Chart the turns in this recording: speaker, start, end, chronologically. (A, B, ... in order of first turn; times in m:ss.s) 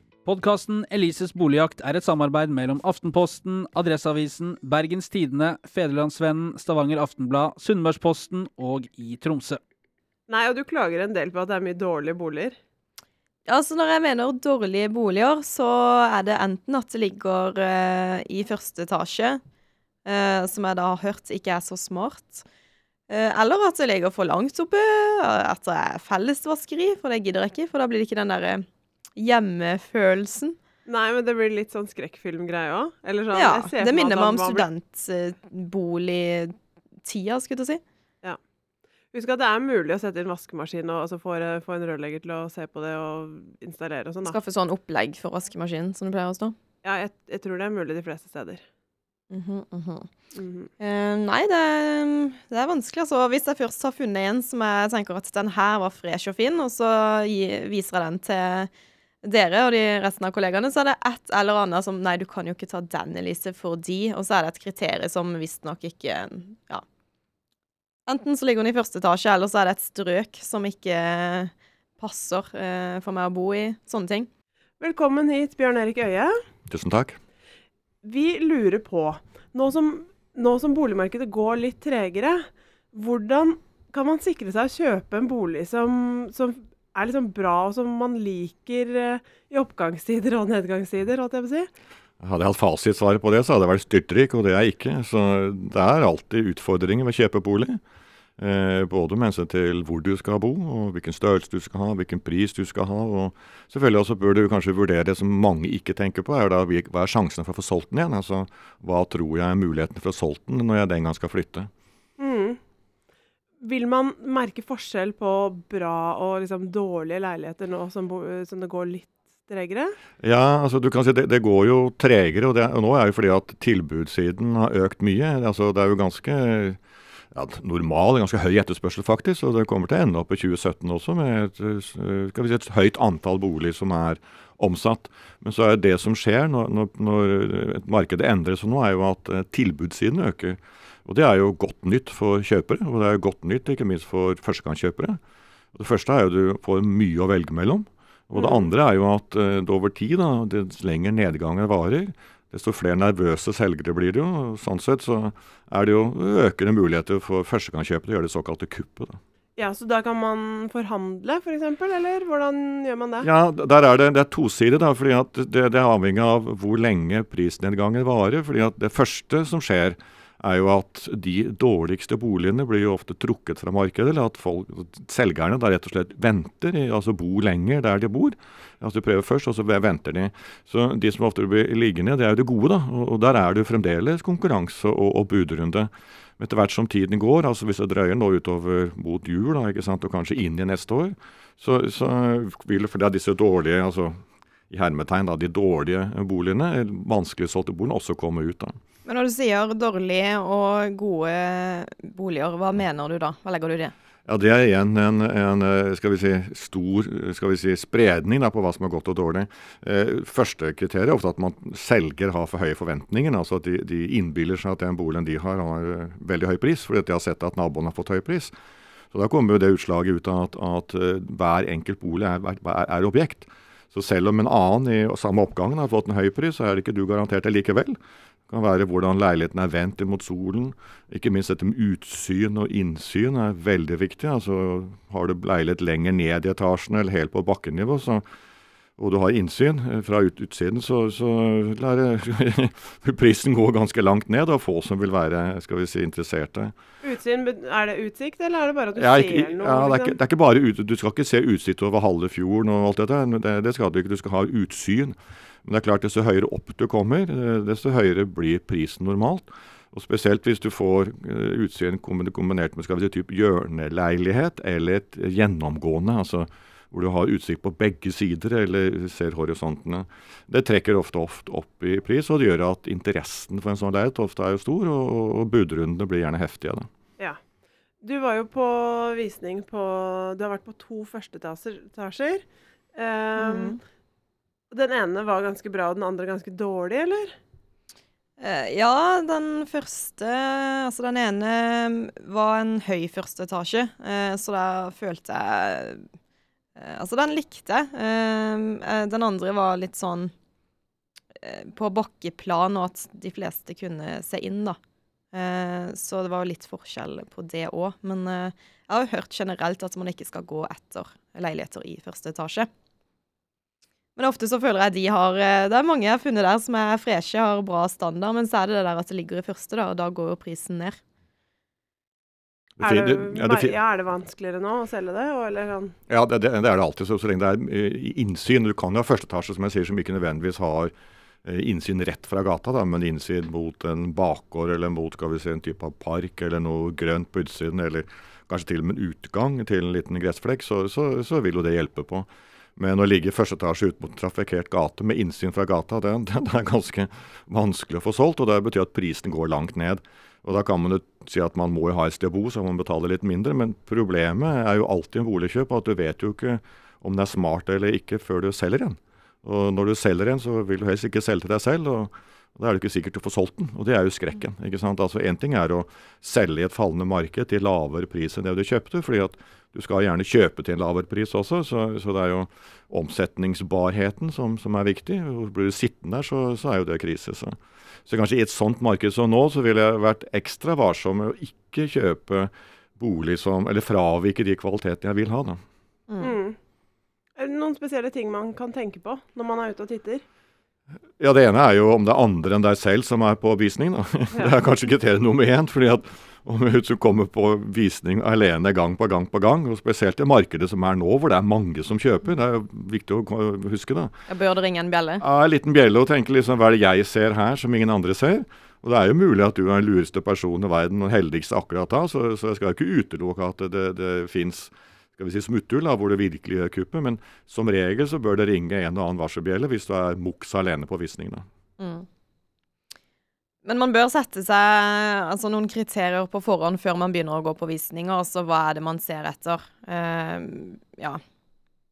0:00.2-0:09.6 A
0:10.3-0:12.6 B
0:13.5-0:19.4 C
0:20.0-0:22.4 C
0:23.1-0:30.6 C
0:30.8-0:34.7 B
0:33.3-0:36.5 C
0:37.0-0:37.8 C
0:39.1-0:44.4 B
0:44.2-0:46.6 C
0:46.8-0:48.6 B
0:49.3-0:50.1 C
0:50.3-0:50.7 B
0:50.8-0:58.7 C
0:59.2-1:06.8 C
1:08.1-1:14.3 C
1:14.8-1:16.3 B
1:16.7-1:17.2 D
1:18.0-1:31.7 B
1:32.2-1:37.8 D
1:38.4-1:51.7 D
1:52.2-1:52.6 B
1:53.6-2:00.0 B
2:00.2-2:06.8 D
2:07.3-2:25.2 D
2:25.7-2:39.2 D
2:28.4-2:28.7 B
2:39.6-2:43.3 B
2:43.2-3:14.2 D
3:14.7-3:18.8 D
3:19.0-3:23.9 C
3:24.3-3:38.5 D
3:39.1-3:58.2 D
3:59.0-4:06.7 D
4:07.0-4:10.2 B
4:09.0-4:36.9 D
4:38.0-4:42.4 B
4:42.9-4:43.8 B
4:43.4-4:43.8 C
4:44.7-4:47.3 B
4:48.4-4:56.0 C
4:56.8-5:00.3 C
5:01.4-5:04.8 C
5:05.3-5:12.7 C
5:14.2-5:21.0 C
5:22.8-5:23.7 D
5:22.8-5:25.9 B
5:26.1-5:30.9 D
5:31.4-6:25.6 D
6:26.1-6:26.4 C
6:26.2-6:26.6 B
6:27.4-6:30.2 B
6:31.2-6:44.1 D
6:44.3-6:45.2 C
6:45.2-7:01.4 D
7:01.8-7:02.1 C
7:03.6-7:11.2 C